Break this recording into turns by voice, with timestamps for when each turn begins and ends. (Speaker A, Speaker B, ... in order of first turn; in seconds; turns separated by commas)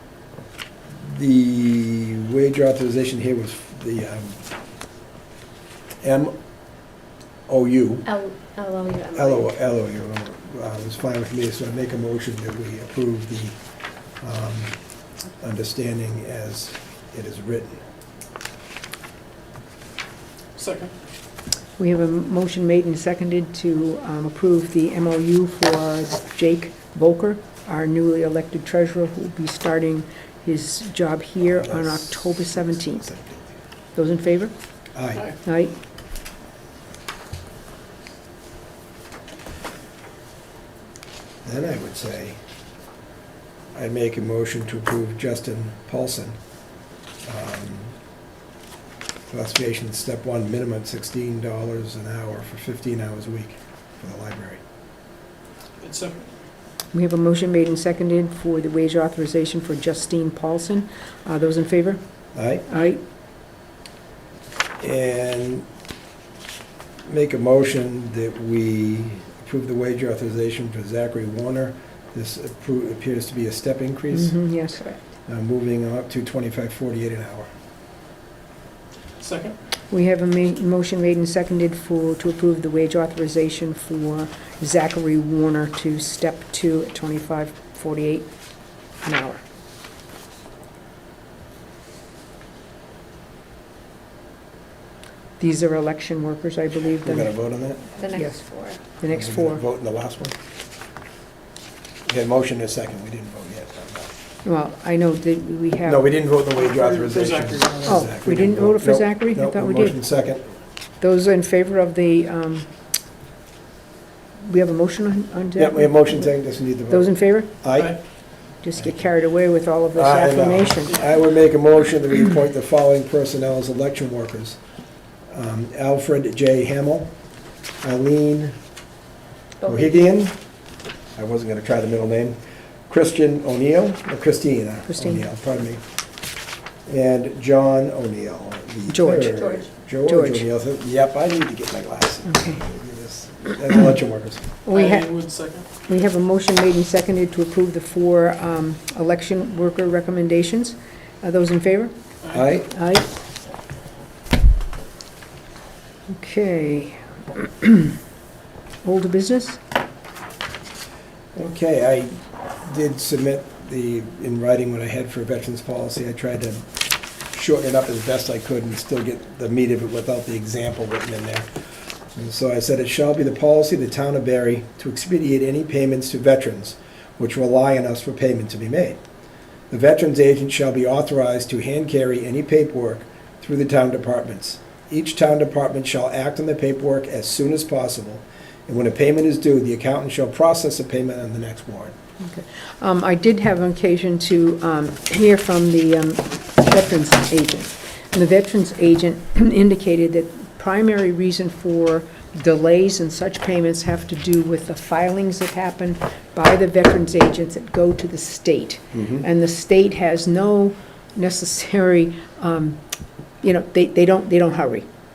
Speaker A: 0.9-4.4, Speaker A: 6.0-6.3, Speaker A: 7.5-8.1, Speaker B: 8.1-9.0, Speaker A: 9.1-13.6, Speaker A: 14.2-14.8, Speaker A: 15.4-17.8, Speaker C: 20.6-20.9, Speaker D: 21.8-33.1, Speaker A: 31.6-33.5, Speaker D: 33.9-34.5, Speaker A: 34.9-35.3, Speaker D: 35.4-35.7, Speaker A: 41.4-42.4, Speaker A: 43.7-46.4, Speaker A: 47.2-47.9, Speaker A: 49.3-54.6, Speaker C: 55.8-56.3, Speaker D: 56.9-62.0, Speaker A: 62.3-62.7, Speaker D: 62.7-63.0, Speaker A: 64.8-65.7, Speaker A: 67.1-74.4, Speaker D: 74.1-74.8, Speaker A: 75.3-77.5, Speaker C: 79.2-79.6, Speaker D: 79.9-88.3, Speaker D: 89.0-89.4, Speaker D: 95.4-97.3, Speaker A: 97.0-97.8, Speaker B: 97.9-98.8, Speaker D: 98.1-98.4, Speaker D: 99.0-99.6, Speaker A: 99.1-100.3, Speaker A: 102.1-104.1, Speaker D: 104.4-106.0, Speaker A: 105.8-110.5, Speaker C: 106.6-108.1, Speaker D: 107.8-110.0, Speaker D: 111.0-112.7, Speaker D: 114.4-116.3, Speaker A: 115.6-118.0, Speaker D: 116.9-117.5, Speaker D: 118.6-121.0, Speaker A: 119.9-124.6, Speaker A: 125.3-127.1, Speaker A: 127.8-128.5, Speaker A: 129.7-130.3, Speaker A: 131.2-132.4, Speaker A: 132.9-135.8, Speaker D: 134.9-135.2, Speaker A: 136.9-144.5, Speaker D: 138.9-139.4, Speaker B: 139.3-139.6, Speaker D: 140.1-140.4, Speaker D: 142.2-142.6, Speaker D: 144.7-145.1, Speaker C: 144.7-145.7, Speaker D: 145.9-151.9, Speaker A: 152.3-152.7, Speaker D: 152.6-153.1, Speaker D: 156.1-158.0, Speaker D: 158.8-159.6, Speaker A: 161.3-166.7, Speaker A: 167.3-171.5, Speaker A: 172.1-179.0, Speaker A: 179.7-191.9, Speaker D: 192.2-212.8, Speaker A: 208.9-209.2, Speaker D: 213.4-214.8